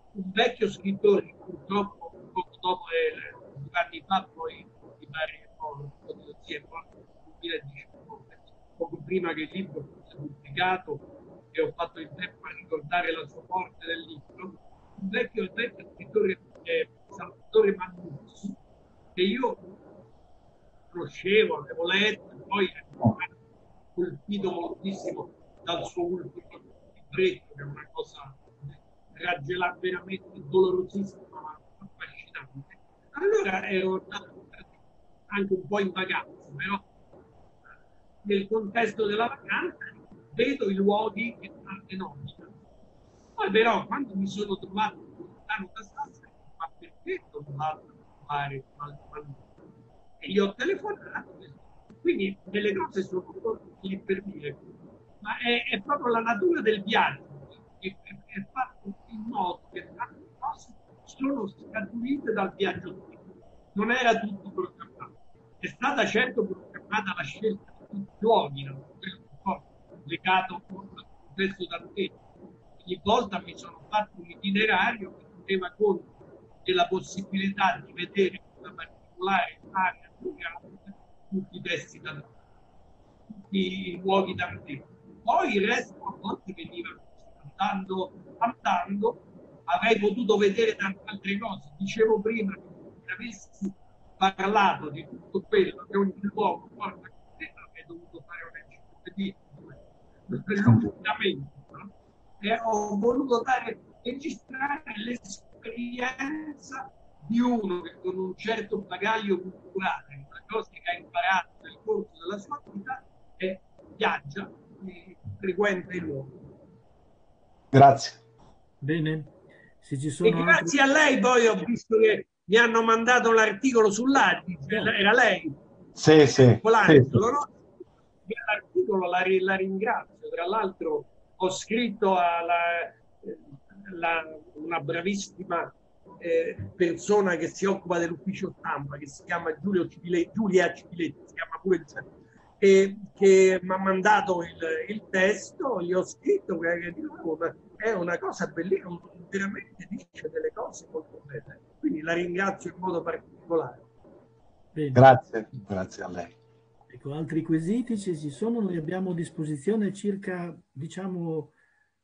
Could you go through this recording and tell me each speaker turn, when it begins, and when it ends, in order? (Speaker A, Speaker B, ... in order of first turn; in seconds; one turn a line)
Speaker A: 0.1-18.6
Speaker A: 19.2-19.6
Speaker A: 20.9-23.3
Speaker A: 24.0-34.7
Speaker A: 35.3-36.8
Speaker A: 38.2-42.5
Speaker A: 43.4-49.5
Speaker A: 50.2-54.6
Speaker A: 55.2-63.2
Speaker A: 63.7-72.2
Speaker A: 72.8-76.1
Speaker A: 76.7-82.3
Speaker A: 83.3-116.3
Speaker B: 117.7-118.2
Speaker C: 118.8-120.7
Speaker A: 120.2-125.6
Speaker B: 126.0-127.2
Speaker A: 126.6-127.6
Speaker A: 128.3-142.1
Speaker A: 142.6-153.9
Speaker C: 154.7-155.1
Speaker B: 154.9-156.3
Speaker C: 156.9-161.5